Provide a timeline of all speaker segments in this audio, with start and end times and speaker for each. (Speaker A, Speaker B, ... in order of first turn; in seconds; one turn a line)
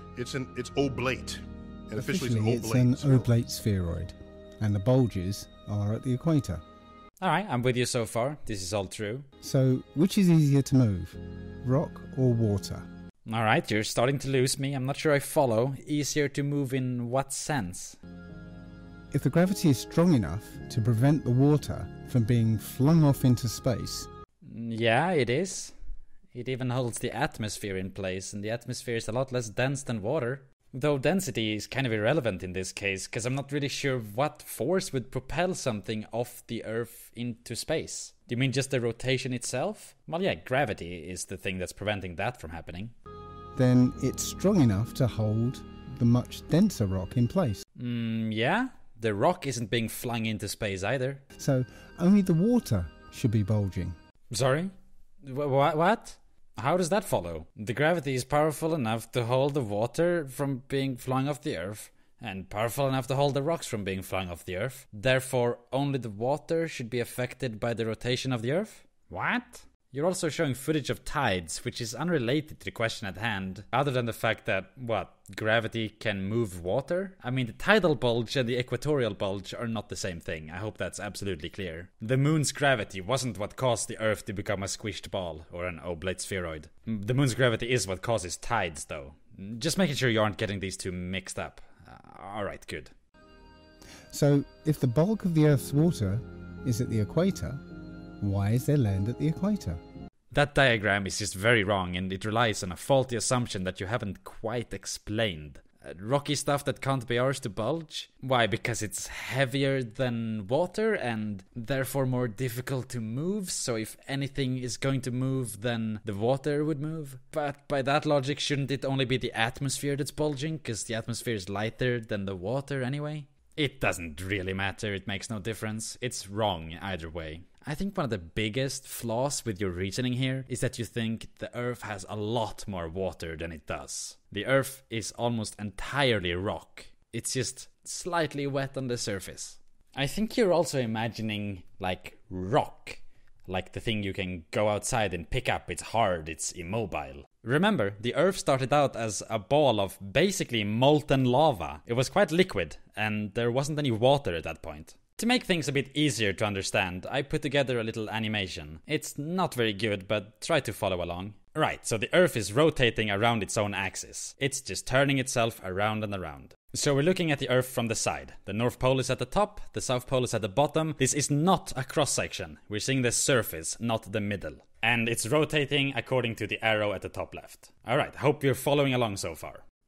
Speaker A: 0.1-3.3
Speaker B: 1.9-6.6
Speaker C: 7.2-9.3
Speaker B: 9.4-12.9
Speaker C: 13.3-18.0
Speaker B: 19.1-24.1
Speaker C: 24.4-25.8
Speaker C: 26.3-42.9
Speaker B: 43.5-47.6
Speaker C: 47.8-51.2
Speaker B: 51.4-54.0
Speaker C: 54.3-54.7
Speaker C: 55.2-92.9
Speaker B: 94.1-97.6
Speaker B: 98.2-99.8
Speaker C: 100.3-179.6